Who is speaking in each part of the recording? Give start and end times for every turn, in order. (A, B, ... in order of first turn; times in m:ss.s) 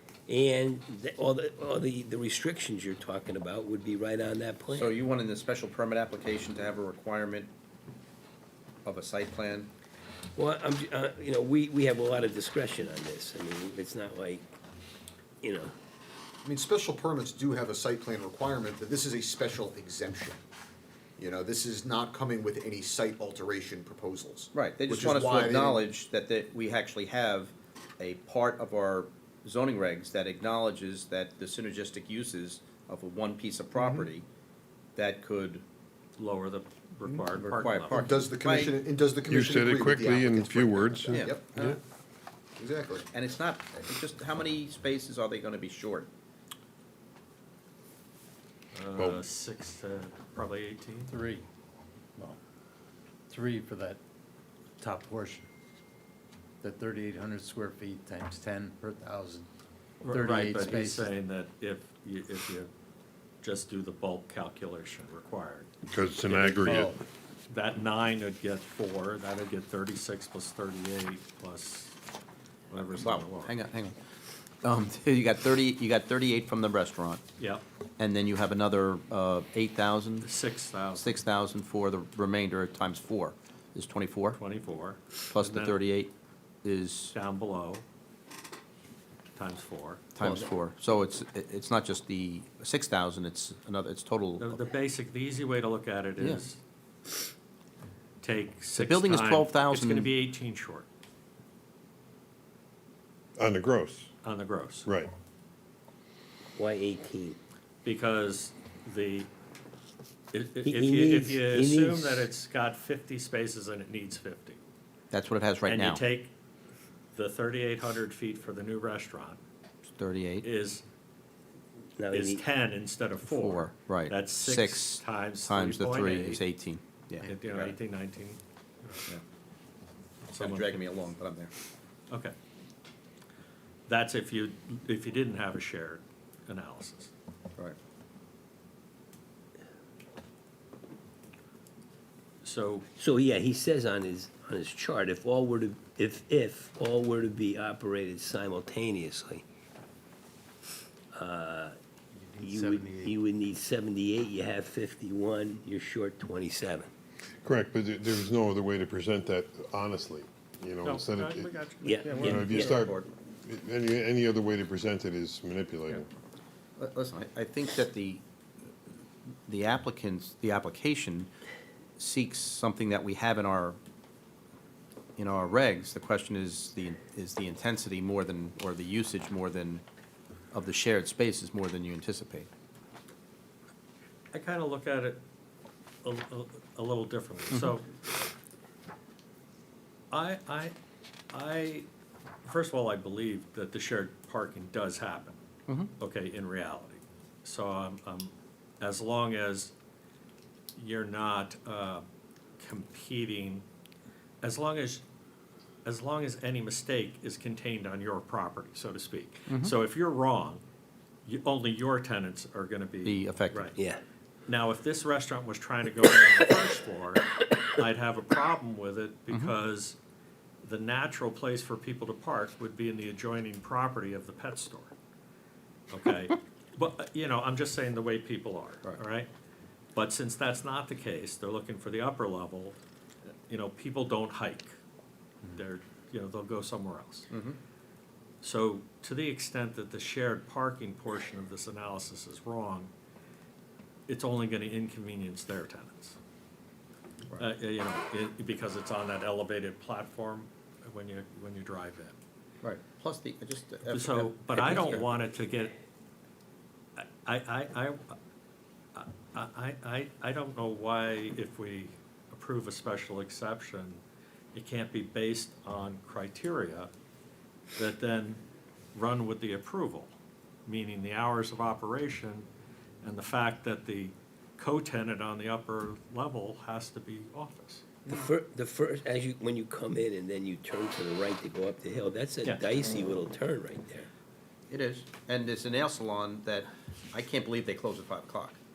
0:00.3-0:04.9 A
0:04.7-0:07.5 B
0:08.8-0:09.7 B
0:10.4-0:14.5 A
0:15.4-0:15.8 A
0:16.4-0:20.4 C
0:21.2-0:25.8 C
0:24.5-0:34.3 B
0:35.0-0:35.6 B
0:36.2-0:38.1 D
0:37.3-0:38.8 B
0:37.9-0:41.8 C
0:39.3-0:41.8 E
0:41.1-0:41.8 B
0:42.6-0:43.1 C
0:43.1-0:46.1 B
0:48.7-0:51.1 D
0:49.0-0:49.2 E
0:51.1-0:51.4 F
0:53.3-0:54.0 F
0:54.8-0:55.5 F
0:56.6-0:59.5 F
1:00.0-1:02.7 D
1:00.0-1:01.1 F
1:03.4-1:05.7 D
1:05.9-1:06.9 E
1:06.2-1:06.9 D
1:06.7-1:07.0 F
1:07.5-1:12.0 D
1:12.7-1:13.5 D
1:12.9-1:14.0 B
1:14.6-1:17.2 B
1:18.0-1:20.3 B
1:20.2-1:21.2 D
1:21.0-1:24.4 B
1:24.3-1:25.8 D
1:25.3-1:26.1 B
1:26.6-1:27.2 B
1:27.1-1:27.8 D
1:29.4-1:30.0 D
1:30.2-1:34.6 B
1:30.2-1:30.5 A
1:34.4-1:36.6 D
1:36.2-1:36.4 B
1:38.2-1:40.9 D
1:38.8-1:40.1 B
1:43.4-1:44.1 E
1:44.2-1:44.9 D
1:44.9-1:45.1 E
1:46.6-1:47.4 A
1:47.8-1:49.3 D
1:50.3-1:54.6 D
1:50.6-1:52.3 A
1:55.1-1:56.0 B
1:55.7-1:56.3 D
1:57.1-1:59.4 D
2:00.0-2:00.5 B
2:00.4-2:00.8 D
2:02.0-2:02.4 A
2:02.1-2:06.4 D
2:03.3-2:07.8 B
2:07.2-2:09.1 D
2:10.3-2:10.8 D
2:10.4-2:11.5 B
2:13.9-2:17.1 D
2:22.4-2:22.9 D
2:23.0-2:29.4 A
2:31.1-2:31.8 A
2:32.1-2:33.2 F
2:32.4-2:36.9 A
2:37.4-2:41.5 E
2:40.8-2:42.5 D
2:41.8-2:42.8 A
2:42.0-2:43.1 B
2:42.2-2:46.1 E
2:46.8-2:48.2 B
2:49.5-2:51.3 B
2:52.0-2:53.8 B
2:55.2-2:59.8 B
3:00.5-3:02.5 B
3:04.3-3:05.2 D
3:06.0-3:08.0 D
3:10.1-3:10.8 D
3:11.3-3:11.9 D
3:12.4-3:15.4 D
3:16.0-3:19.7 D
3:20.8-3:22.0 D
3:22.6-3:23.6 D
3:24.4-3:25.0 D
3:25.8-3:30.6 D
3:29.5-3:29.8 B
3:31.2-3:33.8 D
3:33.0-3:33.7 B
3:33.8-3:34.0 A
3:34.5-3:40.0 D
3:40.6-3:44.9 D
3:45.9-3:49.3 D
3:50.0-3:52.8 D
3:53.5-3:54.7 D
3:55.5-3:57.3 D
3:57.3-3:57.6 B
3:58.4-4:02.9 D
4:04.1-4:06.2 D
4:07.4-4:12.2 D
4:12.6-4:15.2 B
4:13.9-4:15.7 D
4:17.0-4:18.2 D
4:19.0-4:24.0 D
4:24.5-4:26.9 D
4:27.8-4:28.4 D
4:28.9-4:30.1 D
4:30.7-4:32.5 D
4:33.0-4:37.9 D
4:38.1-4:44.1 A
4:44.7-4:48.6 B